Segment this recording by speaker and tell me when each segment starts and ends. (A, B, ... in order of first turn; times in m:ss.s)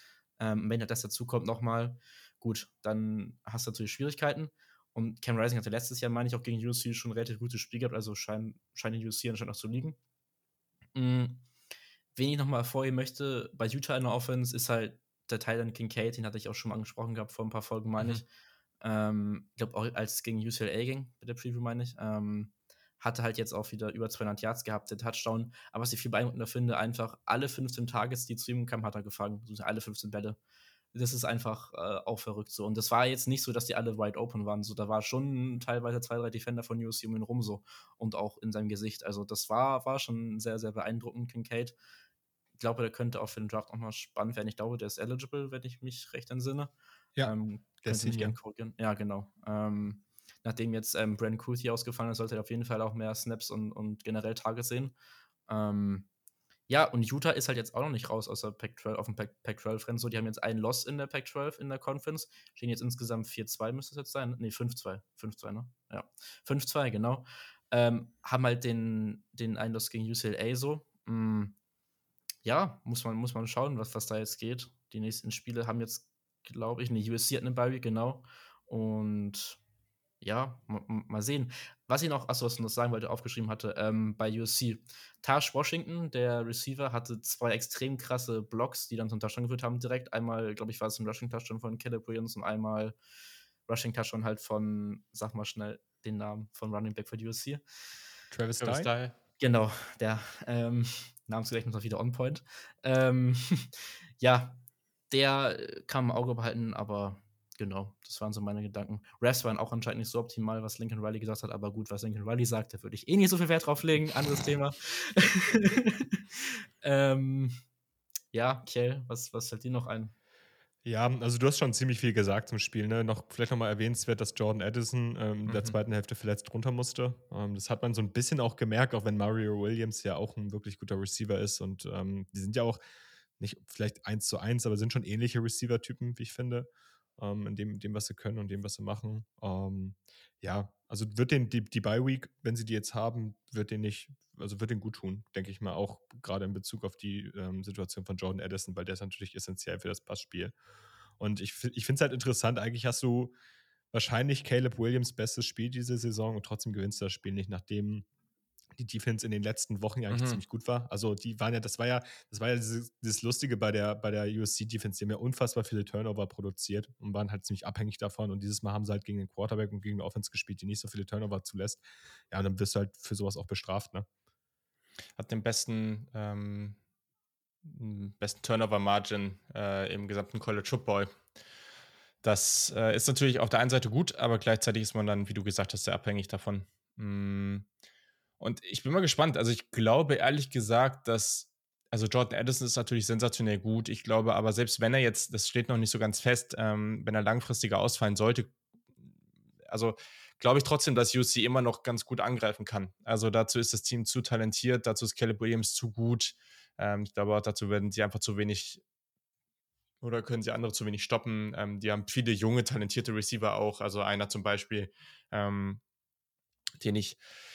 0:00.4-0:10.0 A
0:10.9-0:11.4 A
0:12.2-0:18.2 A
0:18.8-0:30.4 A
0:30.9-0:41.8 A
0:42.6-0:46.7 A
0:47.2-0:48.4 B
0:47.2-0:55.0 A
0:55.5-0:56.1 A
0:56.7-1:11.5 A
1:12.4-1:19.6 A
1:20.2-1:33.0 A
1:33.7-1:37.6 A
1:38.3-1:38.9 B
1:38.6-1:39.1 C
1:39.4-1:44.6 A
1:45.1-1:57.6 A
1:58.3-2:00.1 A
2:00.8-2:12.8 B
2:05.5-2:05.8 C
2:13.4-2:16.7 B
2:17.2-2:30.6 B
2:31.2-2:33.4 B
2:33.9-2:38.0 B
2:38.8-2:54.1 B
2:40.1-2:40.4 C
2:55.2-2:56.8 C
2:57.6-3:01.2 C
3:02.2-3:07.7 C
3:08.4-3:18.5 C
3:19.7-3:28.8 C
3:30.0-3:35.8 C
3:36.8-3:37.2 C